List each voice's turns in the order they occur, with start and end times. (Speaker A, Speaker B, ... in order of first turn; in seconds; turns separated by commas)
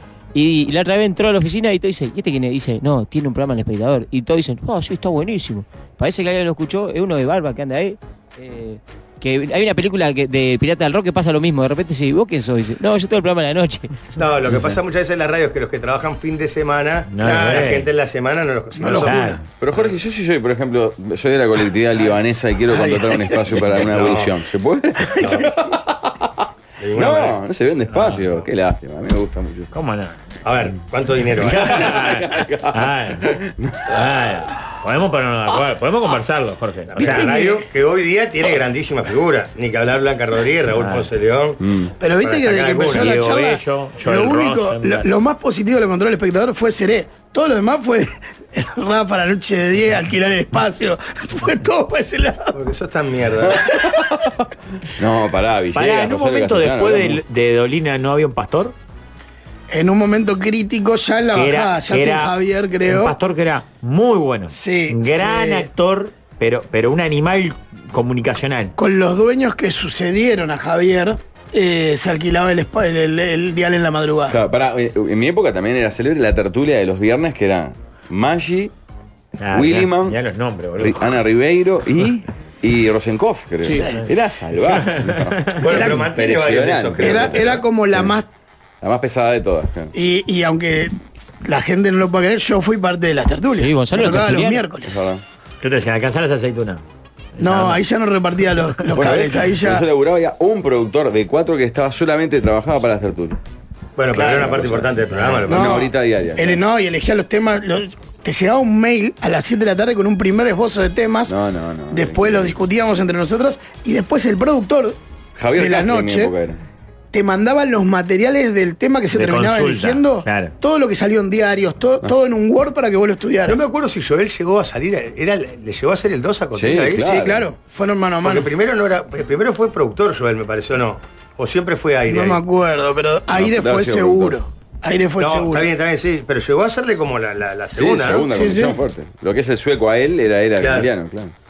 Speaker A: 0.3-14.1, Speaker B: 14.2-19.2, Speaker C: 17.1-17.9, Speaker D: 17.2-17.8, Speaker D: 18.8-19.4, Speaker C: 18.9-19.4, Speaker E: 19.6-26.4, Speaker D: 22.7-23.6, Speaker B: 23.8-24.4, Speaker D: 25.1-25.4, Speaker B: 26.8-27.4, Speaker E: 26.9-29.7, Speaker C: 27.9-28.5, Speaker C: 29.7-30.2, Speaker B: 30.4-31.8, Speaker C: 31.4-33.4, Speaker E: 31.4-34.0, Speaker C: 33.9-37.5, Speaker B: 36.9-41.6, Speaker D: 37.0-37.7, Speaker C: 40.7-41.1, Speaker E: 41.6-41.9, Speaker D: 42.0-52.5, Speaker B: 42.2-43.2, Speaker C: 42.9-45.0, Speaker B: 52.5-53.6, Speaker E: 53.4-54.3, Speaker D: 53.6-54.1, Speaker E: 54.9-57.2, Speaker C: 55.7-58.7, Speaker D: 59.7-63.1, Speaker C: 61.3-62.3, Speaker C: 62.9-68.7, Speaker D: 64.5-65.7, Speaker D: 68.8-74.4, Speaker E: 74.3-78.7, Speaker C: 79.4-81.1, Speaker E: 79.5-80.2, Speaker E: 80.8-88.2, Speaker D: 83.7-84.0, Speaker C: 84.5-85.9, Speaker B: 85.6-87.6, Speaker D: 87.0-88.3, Speaker E: 88.8-89.9, Speaker D: 89.9-90.9, Speaker D: 91.4-95.1, Speaker A: 93.6-94.6, Speaker E: 94.8-95.2, Speaker C: 95.6-96.8, Speaker C: 97.4-97.8, Speaker D: 97.4-99.8, Speaker E: 98.9-103.4, Speaker B: 104.0-105.8, Speaker D: 104.2-104.5, Speaker E: 104.2-106.6, Speaker D: 105.5-111.3, Speaker E: 111.3-112.6, Speaker D: 111.9-115.0, Speaker E: 115.4-116.6, Speaker D: 115.5-116.3, Speaker D: 117.1-123.6, Speaker C: 119.1-120.5, Speaker B: 123.5-127.1, Speaker E: 126.5-127.5, Speaker D: 127.0-128.5, Speaker B: 128.2-132.4, Speaker D: 132.1-135.7, Speaker E: 133.3-134.4, Speaker B: 135.2-138.2, Speaker E: 137.8-141.3, Speaker D: 138.2-138.8, Speaker B: 140.6-140.9